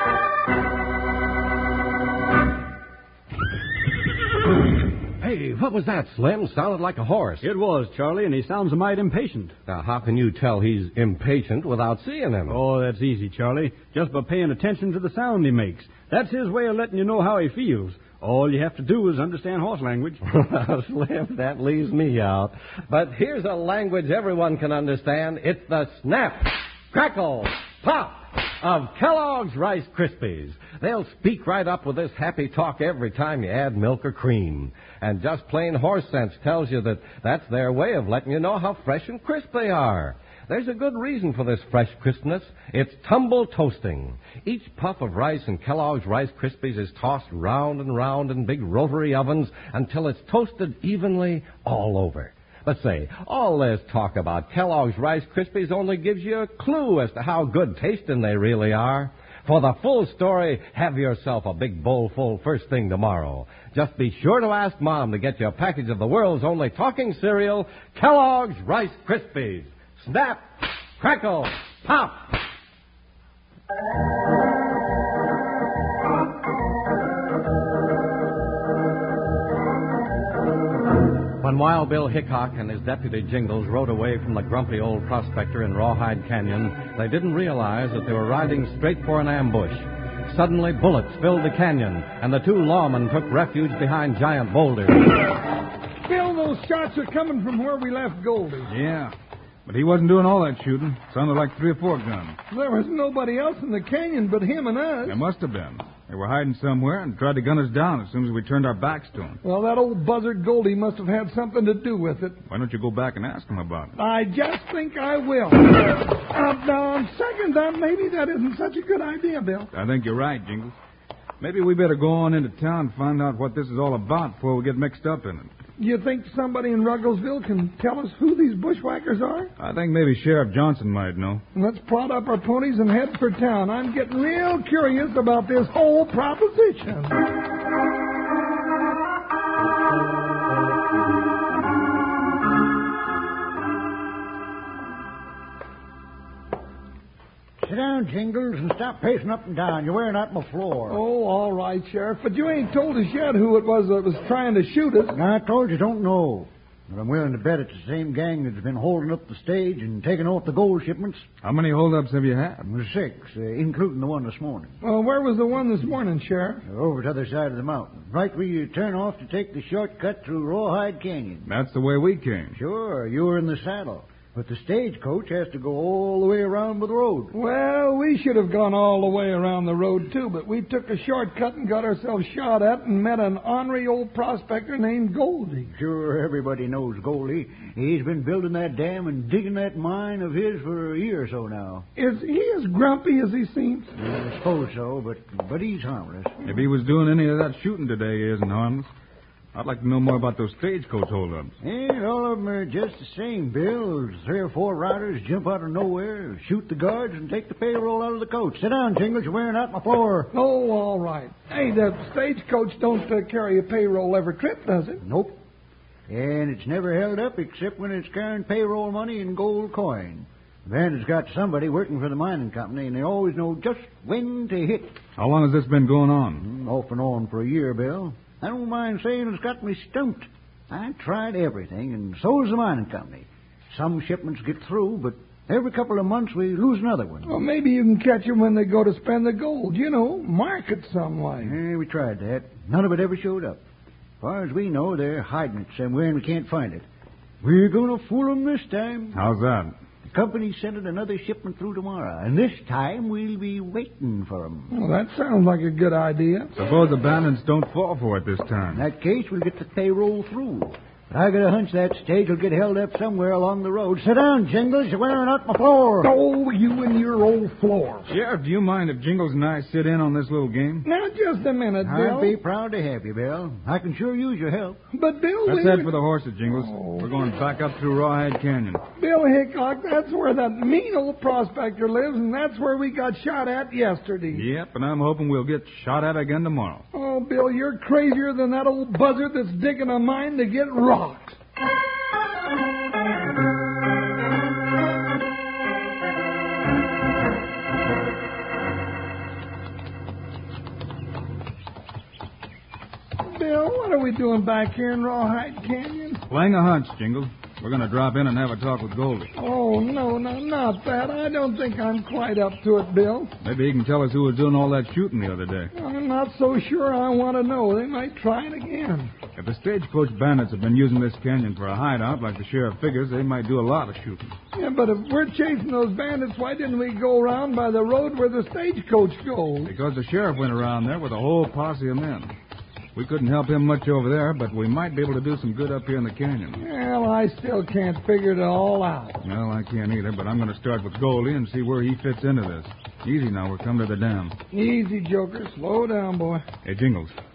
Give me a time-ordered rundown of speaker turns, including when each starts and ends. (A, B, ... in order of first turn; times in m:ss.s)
0:05.2-0:07.5 A
0:07.4-0:09.5 B
0:09.7-0:12.6 A
0:12.5-0:20.2 B
0:20.2-1:12.4 A
1:21.4-1:35.0 A
1:36.0-1:38.7 C
1:38.7-1:39.1 D
1:39.6-1:42.4 D
1:42.5-1:45.2 C
1:45.0-1:49.4 D
1:49.4-1:52.4 C
1:52.5-1:53.9 D
1:54.0-1:59.7 C
1:59.7-2:00.7 D
2:01.4-2:05.5 D
2:05.8-2:09.5 C
2:09.6-2:11.4 D
2:11.5-2:17.2 C
2:27.6-2:31.0 E
2:30.9-2:35.2 C
2:35.1-2:41.2 E
2:41.4-2:42.6 D
2:42.6-2:44.7 E
2:44.8-2:46.6 C
2:46.6-2:51.5 E
2:51.4-2:52.6 D
2:52.5-2:57.3 E
2:57.3-3:05.7 C
3:05.7-3:11.9 E
3:12.0-3:13.9 C
3:13.9-3:16.3 E
3:16.4-3:18.9 D
3:19.5-3:21.5 D
3:21.6-3:30.3 E
3:30.3-3:35.0 C
3:35.0-3:35.4 E
3:36.1-3:44.9 E
3:45.2-3:46.4 D
3:46.4-3:57.4 E
3:57.2-4:01.6 C
4:01.4-4:03.6 E
4:04.2-4:06.8 E
4:07.4-4:09.2 E
4:09.1-4:09.7 D
4:10.0-4:14.7 E
4:14.7-4:16.5 C
4:16.6-4:18.8 D
4:18.7-4:26.1 E
4:26.0-4:28.1 C
4:28.1-4:30.8 D
4:30.8-4:32.4 C
4:31.8-4:34.8 E
4:34.9-4:35.9 C
4:35.4-4:38.8 D
4:36.5-4:37.1 C
4:39.0-4:44.5 C
4:44.3-4:46.8 D
4:46.9-4:51.4 C
5:03.2-5:06.2 C
5:06.3-5:09.3 D
5:09.3-5:13.3 C
5:13.4-5:15.7 D
5:15.7-5:19.1 C
5:19.4-5:24.3 D
5:24.5-5:29.7 C
5:29.6-5:32.3 D
5:32.9-5:36.6 D
5:36.6-5:39.2 C
5:39.2-5:44.3 D
5:44.5-5:46.4 C
5:46.6-5:47.1 D